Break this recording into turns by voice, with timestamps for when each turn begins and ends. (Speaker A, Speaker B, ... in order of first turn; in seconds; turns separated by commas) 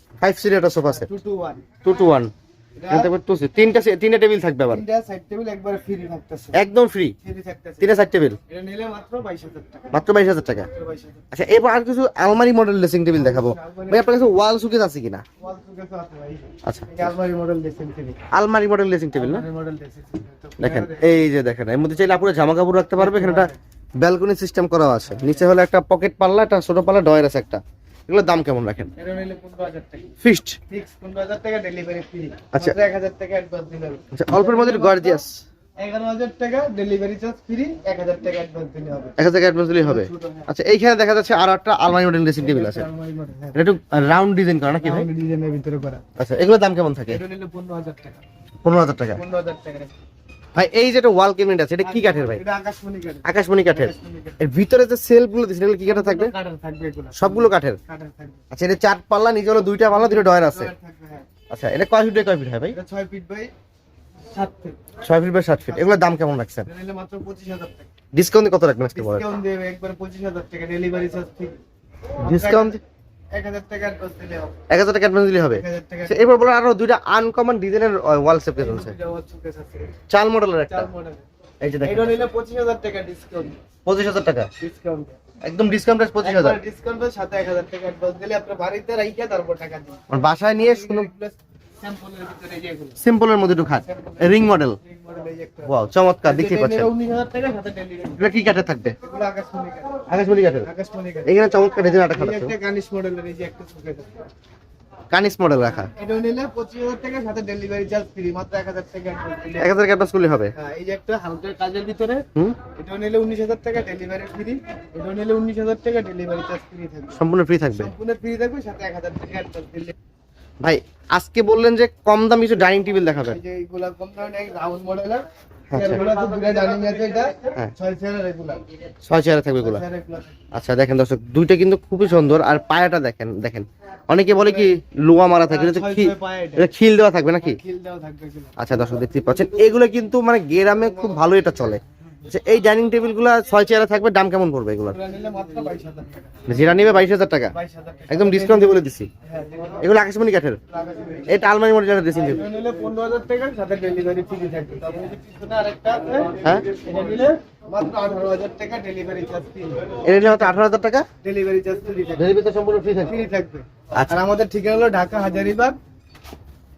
Speaker A: 0.2-1.1, Speaker B: 0.9-1.6, Speaker A: 1.8-2.3, Speaker B: 2.8-3.1, Speaker A: 2.9-4.8, Speaker B: 4.7-6.6, Speaker A: 6.5-7.1, Speaker B: 7.2-7.9, Speaker A: 7.8-8.4, Speaker B: 8.5-10.0, Speaker A: 9.9-10.7, Speaker B: 10.7-11.3, Speaker A: 11.3-15.2, Speaker B: 13.1-14.3, Speaker B: 15.4-18.2, Speaker A: 16.6-17.1, Speaker A: 18.3-19.4, Speaker B: 19.1-21.2, Speaker A: 20.6-28.9, Speaker B: 22.9-23.6, Speaker B: 25.1-25.5, Speaker B: 28.9-30.1, Speaker A: 30.2-30.6, Speaker B: 30.7-35.2, Speaker A: 34.1-35.4, Speaker B: 35.8-39.2, Speaker A: 39.2-42.9, Speaker B: 39.8-40.5, Speaker B: 42.4-43.6, Speaker A: 43.5-45.1, Speaker B: 44.8-46.0, Speaker A: 46.2-47.2, Speaker B: 47.1-48.2, Speaker A: 48.6-49.2, Speaker B: 49.1-50.0, Speaker A: 50.5-52.4, Speaker B: 51.8-54.4, Speaker A: 53.2-56.3, Speaker B: 55.9-58.4, Speaker A: 57.1-57.8, Speaker A: 58.5-60.7, Speaker B: 59.9-61.3, Speaker A: 61.5-62.8, Speaker B: 62.7-63.5, Speaker B: 64.3-64.8, Speaker A: 65.0-66.7, Speaker B: 65.7-67.9, Speaker A: 68.1-69.2, Speaker B: 68.9-71.6, Speaker B: 72.2-72.8, Speaker A: 72.2-72.8, Speaker B: 73.3-74.6, Speaker A: 74.7-78.9, Speaker B: 75.5-76.3, Speaker B: 78.5-79.9, Speaker A: 80.1-80.9, Speaker B: 80.7-81.2, Speaker A: 81.6-82.2, Speaker B: 81.8-83.6, Speaker A: 83.8-84.5, Speaker B: 84.6-85.2, Speaker A: 85.4-86.6, Speaker B: 86.2-93.0, Speaker A: 90.1-91.1, Speaker A: 93.0-94.8, Speaker B: 93.6-95.7, Speaker A: 95.7-96.9, Speaker B: 96.2-98.5, Speaker A: 98.2-99.0, Speaker B: 99.0-100.1, Speaker A: 100.1-100.7, Speaker B: 100.6-101.3, Speaker A: 101.2-102.5, Speaker B: 102.1-104.1, Speaker A: 105.1-105.9, Speaker B: 105.8-109.8, Speaker A: 109.6-110.5, Speaker B: 110.5-119.9, Speaker A: 117.1-117.9, Speaker A: 120.6-123.4, Speaker B: 123.2-128.6, Speaker A: 125.7-126.0, Speaker A: 129.0-129.8, Speaker B: 129.6-130.4, Speaker A: 130.5-137.6, Speaker B: 134.3-134.8, Speaker B: 135.5-136.7, Speaker B: 137.3-139.5, Speaker A: 138.6-145.0, Speaker B: 140.7-141.3, Speaker B: 144.9-146.6, Speaker A: 146.5-147.5, Speaker B: 147.5-149.8, Speaker A: 148.1-149.1, Speaker A: 149.8-150.6, Speaker B: 150.7-151.4, Speaker A: 151.3-152.4, Speaker B: 152.1-160.6, Speaker A: 160.0-161.1, Speaker B: 161.2-162.3, Speaker A: 162.2-163.2, Speaker B: 163.0-165.8